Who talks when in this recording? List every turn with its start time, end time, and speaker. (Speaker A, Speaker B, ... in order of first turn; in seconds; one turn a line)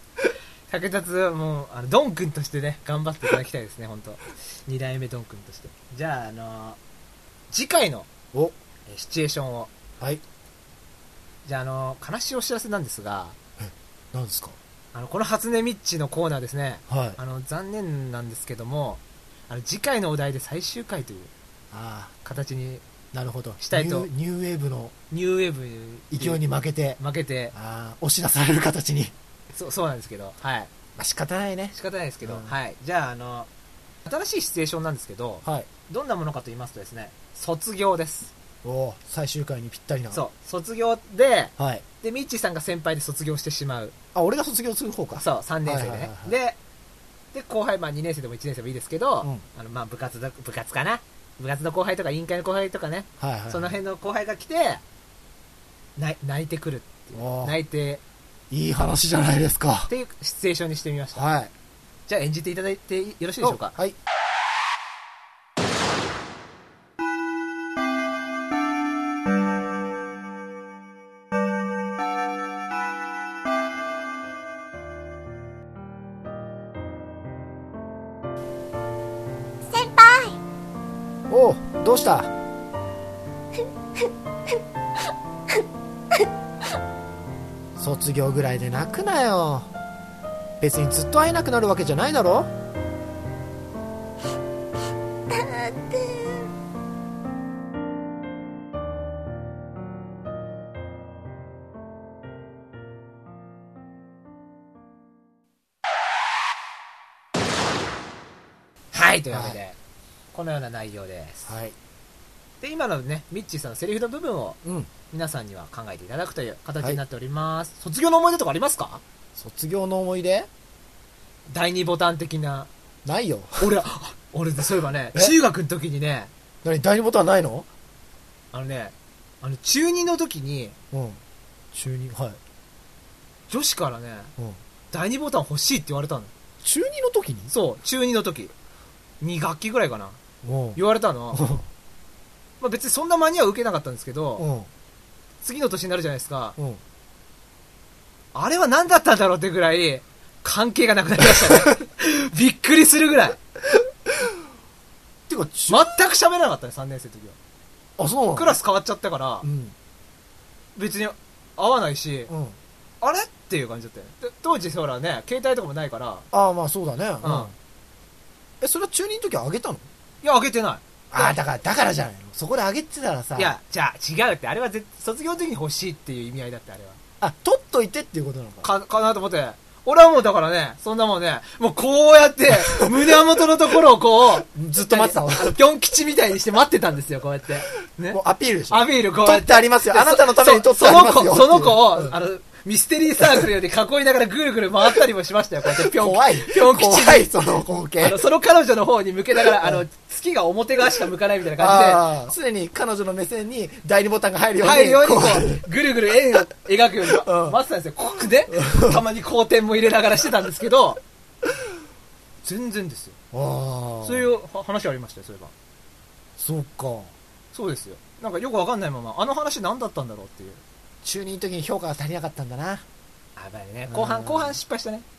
Speaker A: 0.7-6.8
Speaker A: 7.5-8.1
Speaker A: 8.9-9.7
Speaker A: 11.4-13.4
Speaker B: 13.6-14.6
Speaker A: 14.9-21.3
Speaker B: 16.9-17.2
Speaker B: 21.7-22.1
Speaker A: 22.2-22.8
Speaker B: 23.1-24.9
Speaker A: 23.6-24.1
Speaker A: 25.1-26.4
Speaker B: 26.1-27.0
Speaker A: 27.0-27.5
Speaker B: 27.5-29.1
Speaker A: 29.5-30.7
Speaker B: 31.0-32.5
Speaker A: 31.7-33.5
Speaker A: 34.0-38.3
Speaker B: 38.6-40.2
Speaker A: 40.1-44.0
Speaker B: 41.6-41.8
Speaker B: 44.1-46.3
Speaker A: 45.2-46.6
Speaker A: 47.3-54.8
Speaker B: 53.2-53.8
Speaker A: 56.0-58.0
Speaker B: 57.1-57.5
Speaker B: 58.5-59.9
Speaker A: 59.9-61.2
Speaker B: 61.2-61.5
Speaker A: 62.1-63.7
Speaker B: 63.4-64.0
Speaker C: 79.7-80.4
Speaker B: 81.3-82.3
Speaker C: 84.0-84.6
Speaker C: 85.5-86.3
Speaker B: 87.8-89.7
Speaker B: 90.6-92.5
Speaker C: 95.3-96.5
Speaker A: 108.9-109.8
Speaker B: 109.3-109.6
Speaker A: 110.3-111.5
Speaker B: 111.5-111.8
Speaker A: 112.6-114.6
Speaker B: 114.6-114.9
Speaker A: 115.1-119.0
Speaker B: 119.4-120.5
Speaker A: 121.5-122.7
Speaker B: 123.0-123.7
Speaker A: 123.6-126.3
Speaker B: 126.6-127.7
Speaker A: 128.5-130.8
Speaker B: 130.9-131.2
Speaker B: 131.7-132.4
Speaker A: 133.5-134.3
Speaker A: 134.9-136.3
Speaker B: 136.6-137.5
Speaker A: 137.5-138.5
Speaker A: 139.2-140.2
Speaker B: 140.4-140.8
Speaker A: 140.8-141.5
Speaker B: 141.3-141.7
Speaker A: 142.6-144.5
Speaker B: 144.4-144.7
Speaker A: 145.4-146.6
Speaker A: 148.3-153.4
Speaker B: 155.3-155.8
Speaker A: 155.7-157.4
Speaker B: 158.0-158.6
Speaker A: 158.3-159.5
Speaker B: 159.4-159.8
Speaker A: 160.8-162.3
Speaker B: 162.3-162.6
Speaker A: 163.0-166.3
Speaker B: 166.3-167.5
Speaker A: 167.2-167.5
Speaker B: 168.6-169.9
Speaker A: 170.2-170.8
Speaker B: 171.1-173.5
Speaker A: 173.4-177.0
Speaker B: 177.2-178.7
Speaker A: 178.6-197.3
Speaker B: 184.5-185.6
Speaker B: 188.1-192.1
Speaker B: 195.8-198.2
Speaker A: 198.0-202.1
Speaker B: 201.6-205.6
Speaker A: 204.6-211.0
Speaker B: 207.1-207.6
Speaker B: 208.6-209.0
Speaker A: 212.4-213.2
Speaker B: 213.3-214.3
Speaker A: 214.0-215.5
Speaker B: 216.4-217.1
Speaker A: 217.5-220.6
Speaker B: 221.0-222.8
Speaker A: 223.4-225.1
Speaker B: 223.9-224.6